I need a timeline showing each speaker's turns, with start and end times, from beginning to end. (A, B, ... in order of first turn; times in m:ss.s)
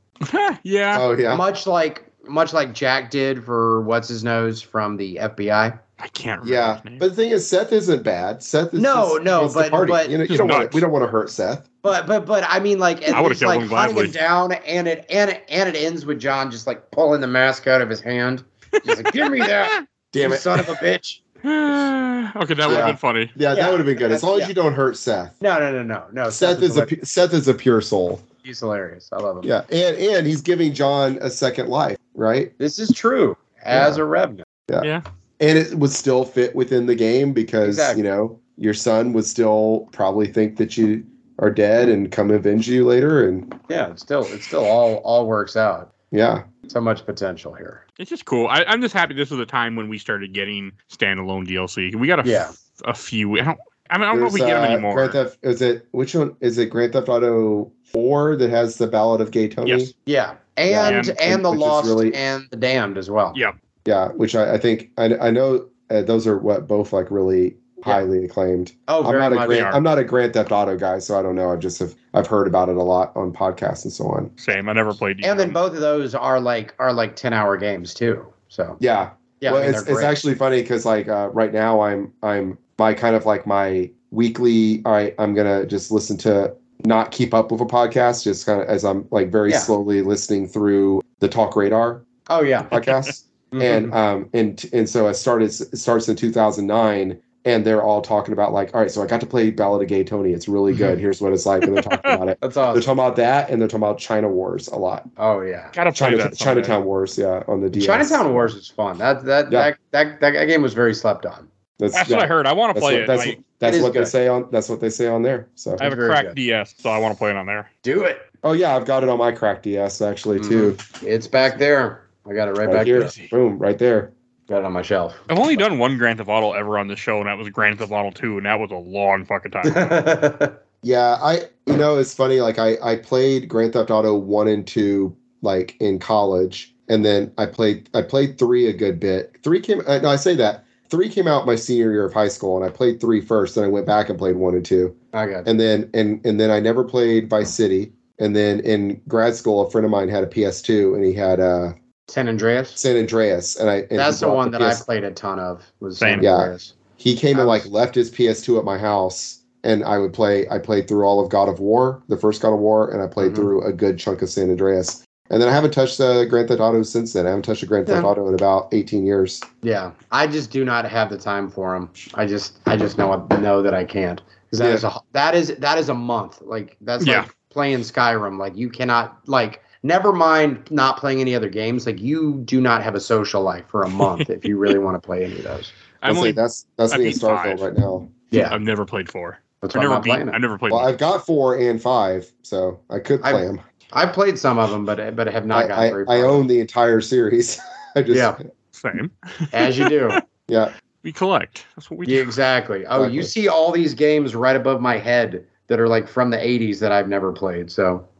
0:00.2-0:01.1 A
0:00.9-0:01.4 B
0:01.3-0:05.8 C
0:06.0-0:07.1 A
0:06.4-0:11.6 B
0:08.8-0:10.2 C
0:10.3-0:10.8 A
0:11.8-0:21.2 C
0:13.1-0:14.2 A
0:18.9-0:19.8 A
0:20.1-0:20.6 B
0:21.4-0:23.3 A
0:22.7-0:25.4 B
0:23.5-0:24.5 C
0:25.4-0:26.9 C
0:26.3-0:28.2 B
0:28.4-0:29.5 C
0:29.4-0:32.5 B
0:32.6-0:34.4 C
0:33.7-0:34.0 B
0:34.7-0:43.5 B
0:37.6-0:38.0 C
0:43.7-0:45.9 C
0:46.1-0:46.5 B
0:46.7-0:47.8 C
0:48.0-0:55.2 A
0:52.2-0:52.5 C
0:54.1-0:59.9 B
0:59.6-0:59.9 A
1:00.1-1:03.4 C
1:00.7-1:02.2 B
1:00.8-1:01.1 A
1:03.9-1:14.3 B
1:08.9-1:09.8 C
1:09.5-1:09.8 A
1:14.4-1:15.6 A
1:15.2-1:18.8 C
1:18.8-1:32.0 B
1:19.4-1:20.2 C
1:29.5-1:29.7 C
1:32.3-1:32.8 C
1:32.7-1:45.1 B
1:33.5-1:33.9 C
1:41.8-1:42.2 A
1:42.4-1:42.9 C
1:45.2-1:45.7 C
1:45.7-1:46.8 A
1:46.0-1:48.5 B
1:47.8-1:51.5 C
1:51.8-1:55.8 B
1:51.9-1:53.4 A
1:53.6-1:54.1 C
1:55.8-1:56.4 C
1:55.8-1:57.7 A
1:57.8-1:58.3 C
1:58.4-2:00.8 B
2:00.4-2:03.2 C
2:02.7-2:04.1 B
2:04.5-2:05.6 C
2:05.3-2:09.9 A
2:09.6-2:10.6 C
2:10.8-2:31.7 B
2:25.1-2:25.5 C
2:32.1-2:32.8 C
2:32.8-2:34.8 B
2:34.0-2:36.8 C
2:36.0-2:36.3 A
2:36.2-2:49.4 B
2:37.3-2:37.7 C
2:43.2-2:43.5 C
2:49.6-3:05.7 C
2:54.6-2:54.8 B
2:57.0-2:57.3 A
3:06.0-3:07.6 A
3:06.0-3:08.1 B
3:08.3-3:08.6 C
3:08.4-3:10.9 A
3:09.6-3:10.4 C
3:10.7-3:13.6 B
3:13.2-3:16.4 C
3:15.5-3:18.4 B
3:18.1-3:18.4 C
3:18.7-3:20.2 A
3:19.5-3:20.2 C
3:21.0-3:22.4 A
3:22.1-3:28.1 C
3:23.0-3:23.3 B